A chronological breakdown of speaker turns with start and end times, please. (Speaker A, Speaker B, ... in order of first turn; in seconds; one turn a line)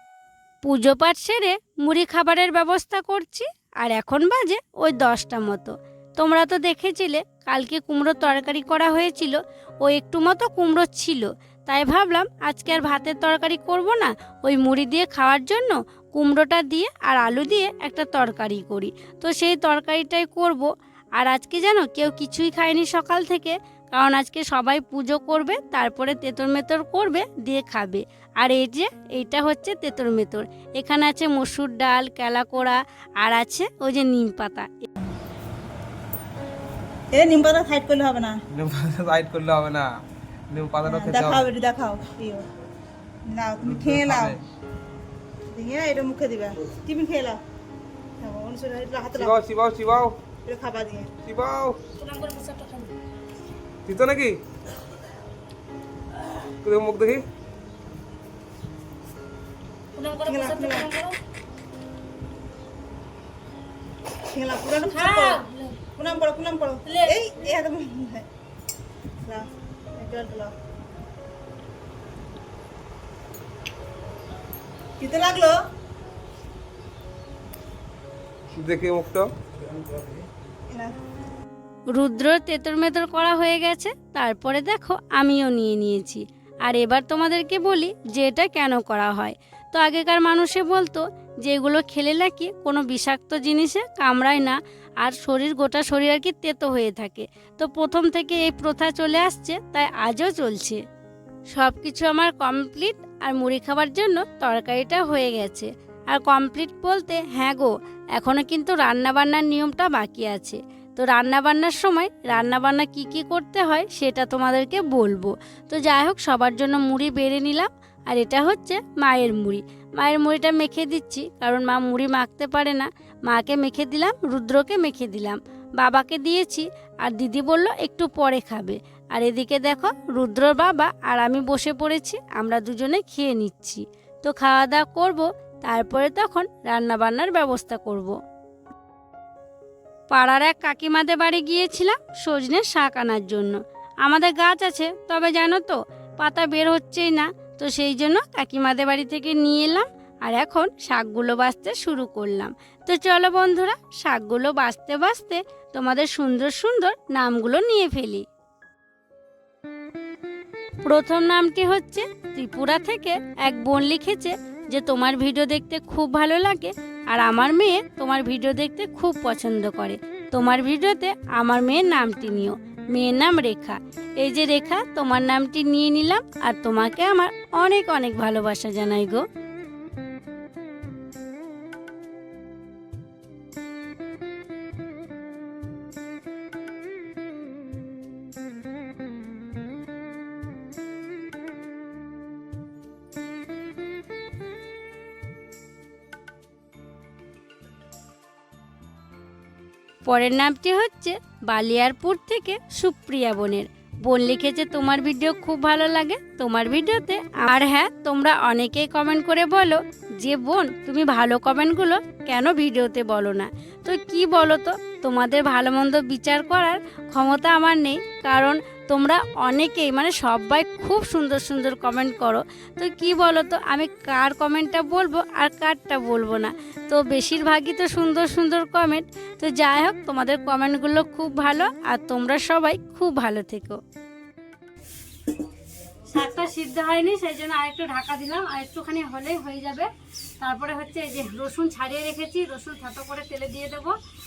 Speaker A: 0.6-34.9
Speaker B: 37.1-38.4
Speaker C: 38.5-39.9
Speaker C: 40.5-41.5
Speaker B: 40.8-42.5
Speaker B: 43.2-44.4
Speaker C: 43.6-44.4
Speaker B: 45.5-47.4
Speaker B: 48.2-49.4
Speaker C: 49.2-50.2
Speaker B: 50.4-51.1
Speaker C: 51.2-51.8
Speaker A: 52.0-52.9
Speaker C: 53.9-54.4
Speaker C: 56.6-57.2
Speaker A: 60.0-61.1
Speaker B: 60.2-60.9
Speaker B: 64.3-65.4
Speaker A: 64.8-65.8
Speaker B: 66.0-68.3
Speaker A: 66.8-67.2
Speaker B: 69.2-70.5
Speaker B: 75.0-75.5
Speaker C: 78.5-80.2
Speaker B: 80.7-80.9
Speaker A: 81.9-100.8
Speaker A: 101.5-138.1
Speaker A: 140.1-158.2
Speaker A: 160.8-179.2
Speaker A: 200.0-233.8
Speaker A: 236.1-239.9
Speaker A: 240.4-243.9